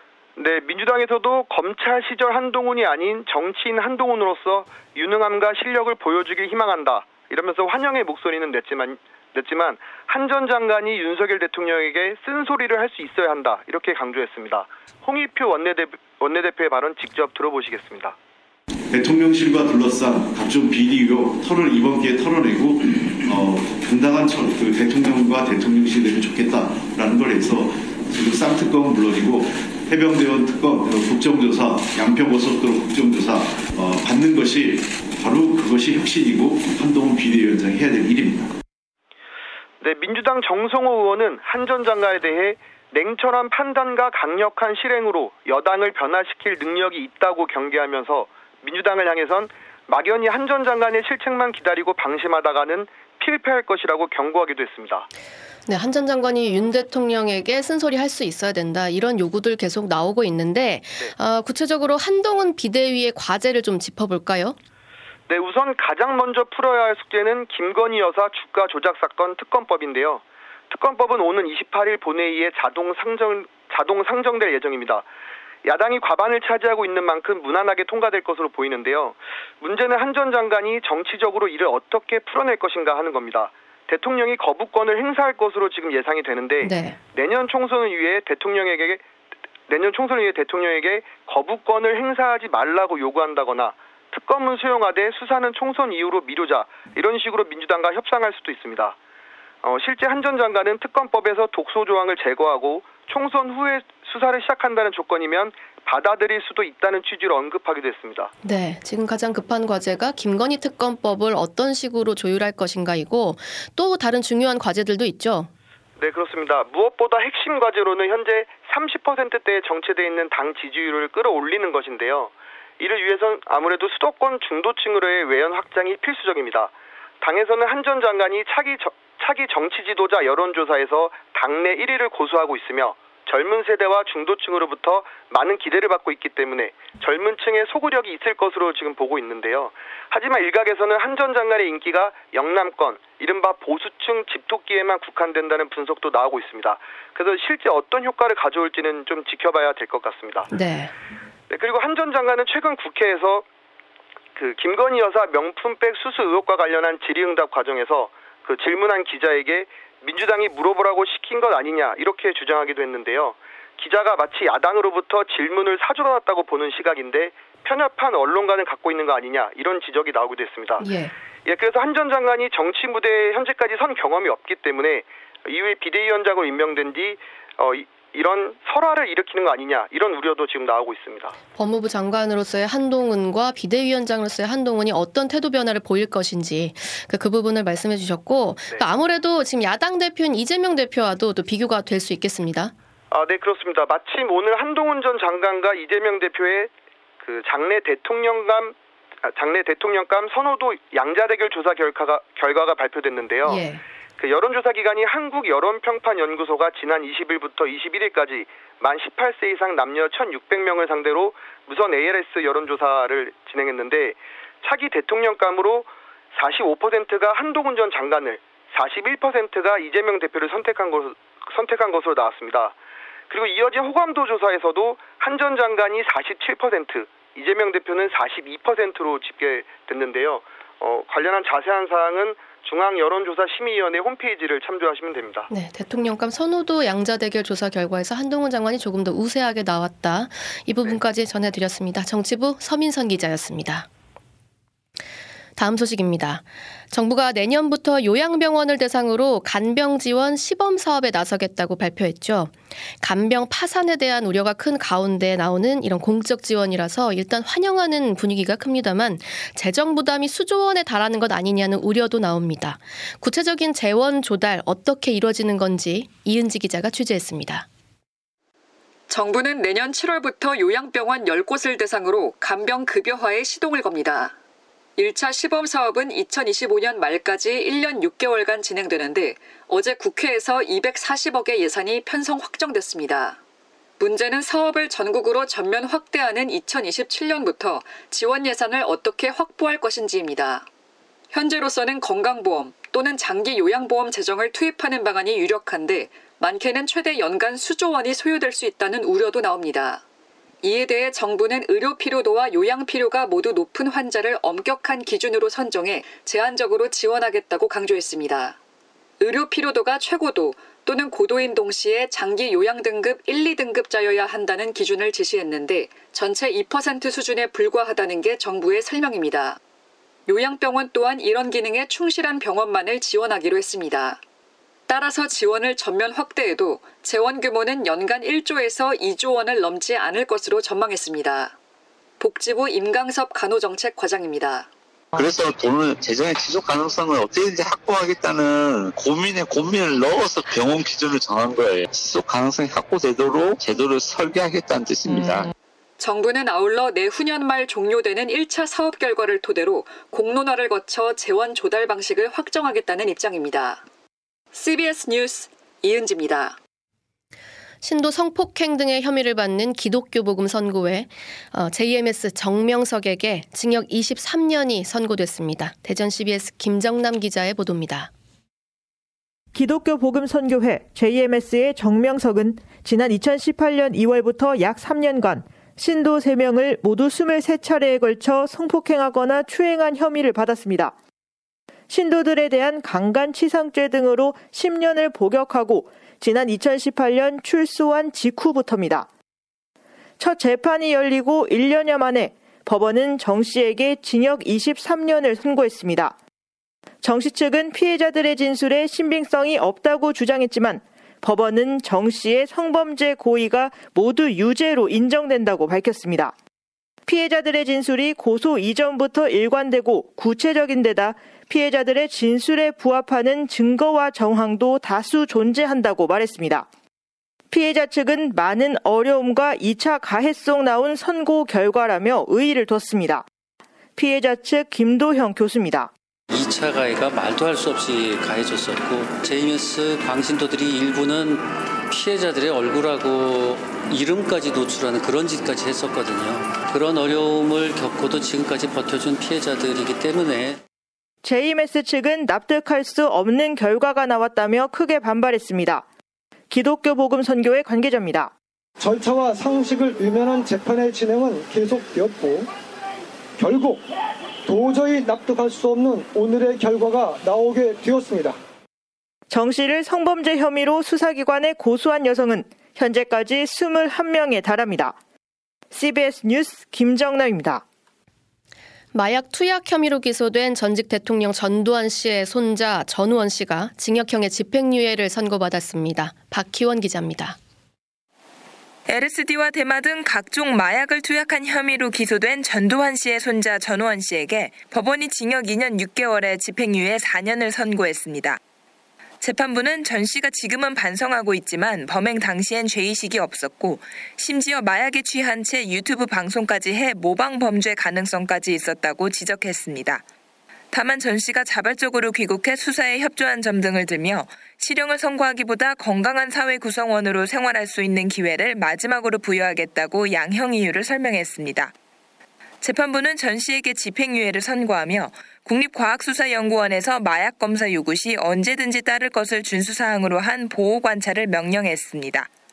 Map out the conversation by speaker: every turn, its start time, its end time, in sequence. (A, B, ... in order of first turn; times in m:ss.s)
0:00.4-0:18.2 A
0:18.9-0:38.6 B
0:39.8-0:55.1 A
0:55.7-1:04.6 C
1:05.3-1:15.1 A
1:15.6-1:29.0 A
1:26.6-1:27.0 C
1:29.7-1:39.0 A
1:39.6-1:48.3 A
1:48.4-1:55.5 C
1:56.0-2:30.5 A
2:30.5-2:30.9 C
2:31.5-2:33.5 A
2:34.4-2:50.9 A
2:50.8-2:51.1 C
2:51.4-3:01.4 A
3:01.6-3:12.7 C
3:13.1-3:23.6 A
3:23.4-3:23.8 C
3:24.2-3:42.8 A
3:43.3-3:55.5 A
3:55.5-4:03.9 C
4:05.6-4:27.7 C
4:29.1-4:34.4 D
4:35.0-4:43.4 D
4:44.0-4:50.7 D
4:51.3-5:00.0 D
5:00.6-5:08.6 D
5:09.2-5:19.6 D
5:20.3-5:24.2 D
5:24.9-5:31.6 D
5:32.2-5:34.7 D
5:35.1-5:45.5 E
5:46.0-5:53.8 D
5:54.5-5:56.6 D
5:57.8-6:08.1 C
6:09.5-6:21.0 F
6:21.9-6:29.1 F
6:30.2-6:36.2 F
6:37.0-6:46.3 F
6:47.1-6:56.7 F
6:57.5-7:03.2 F
7:04.0-7:05.9 F
7:06.3-7:20.6 G
7:21.2-7:25.8 F
7:26.5-7:28.3 F
7:28.8-7:32.5 H
7:33.4-7:33.8 H
7:34.5-7:38.4 H
7:39.3-7:45.0 F
7:45.7-7:47.6 F
7:48.9-7:57.4 C
7:58.9-8:08.4 I
8:09.2-8:20.0 I
8:20.7-8:31.7 I
8:32.6-8:42.3 I